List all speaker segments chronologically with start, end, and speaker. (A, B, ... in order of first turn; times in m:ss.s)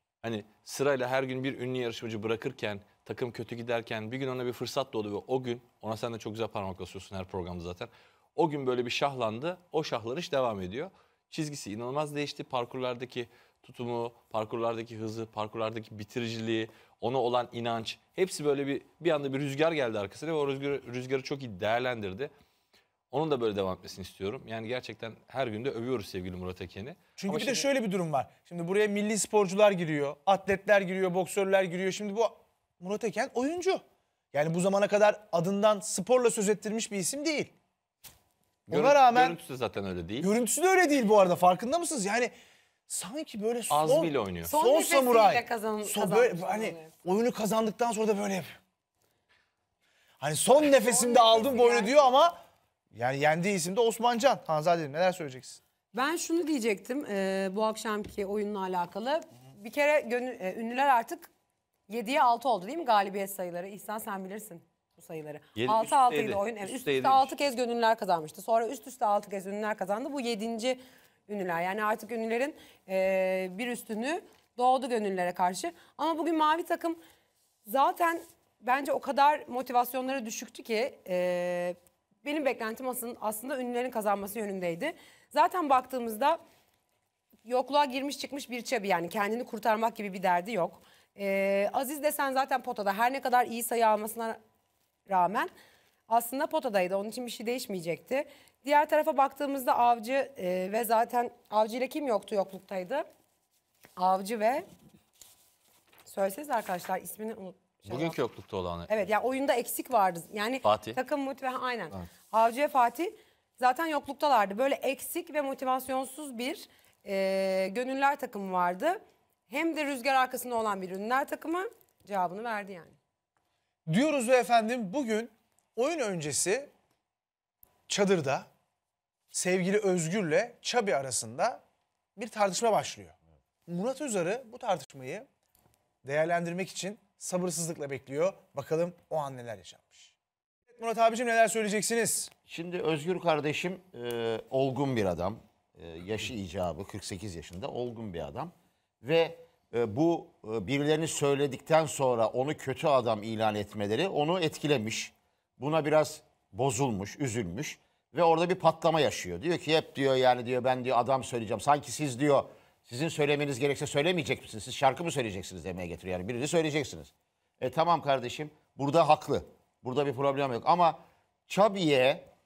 0:00.2-0:22.3 A
0:23.1-0:27.7 A
0:27.2-0:33.8 B
0:34.3-0:37.5 B
0:38.7-0:39.4 B
0:38.7-0:40.3 A
0:40.2-0:42.3 B
0:42.9-0:48.6 B
0:43.7-0:44.5 A
0:44.5-0:46.9 C
0:50.2-0:52.4 B
0:50.8-0:52.0 C
0:52.9-0:55.6 B
0:55.9-1:01.3 C
1:01.9-1:17.0 C
1:05.6-1:07.3 A
1:17.7-1:26.4 C
1:27.5-1:34.4 C
1:35.1-1:35.5 C
1:36.1-1:43.1 C
1:44.0-1:44.7 C
1:46.1-1:48.2 C
1:47.9-1:48.9 A
1:48.9-2:03.0 C
1:50.6-1:51.0 A
2:03.9-2:06.7 B
2:07.9-2:08.5 B
2:09.3-2:11.6 B
2:12.2-2:13.2 B
2:13.7-2:15.3 B
2:16.0-2:20.1 B
2:20.7-2:22.3 B
2:22.5-2:52.3 D